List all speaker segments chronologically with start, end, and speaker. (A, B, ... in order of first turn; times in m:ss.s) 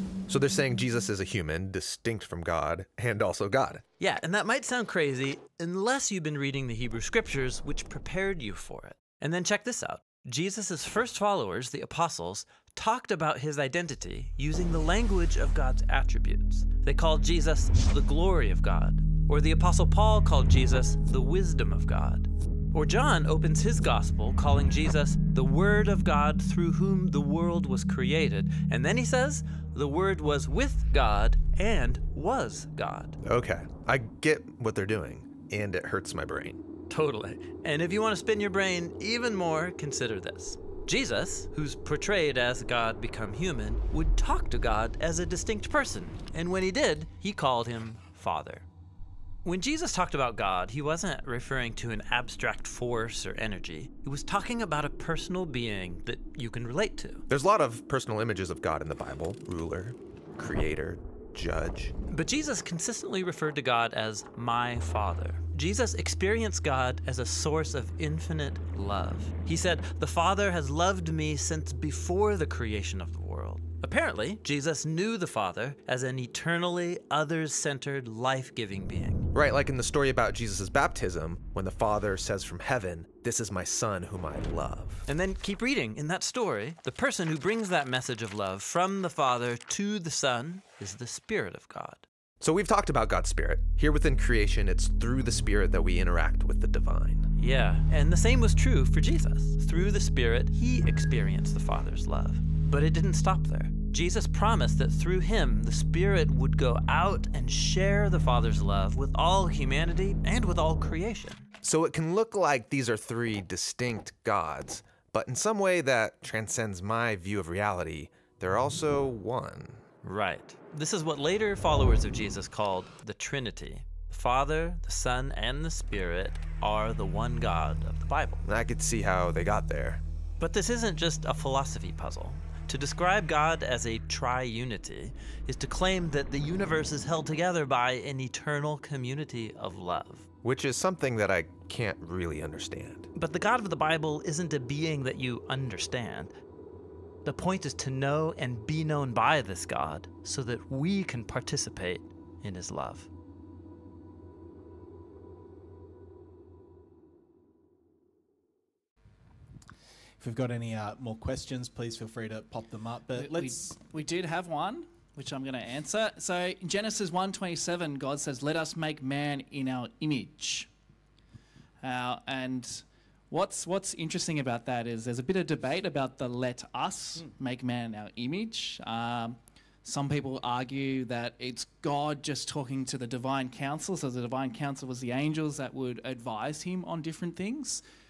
0:00.3-0:03.8 A
0:04.0-0:33.2 B
0:33.2-0:36.6 A
0:36.9-0:48.7 B
0:49.4-0:57.2 B
0:57.3-1:02.0 A
1:02.1-1:19.3 B
1:19.3-1:25.1 A
1:25.1-1:32.0 B
1:32.4-1:37.3 A
1:37.4-1:51.5 B
1:51.6-1:59.8 A
2:00.0-2:08.4 B
2:08.4-2:10.0 A
2:10.4-2:20.3 B
2:20.4-2:23.1 A
2:23.2-2:26.3 B
2:27.2-2:33.1 B
2:40.2-2:43.7 C
2:43.2-2:50.7 D
2:51.8-3:07.8 D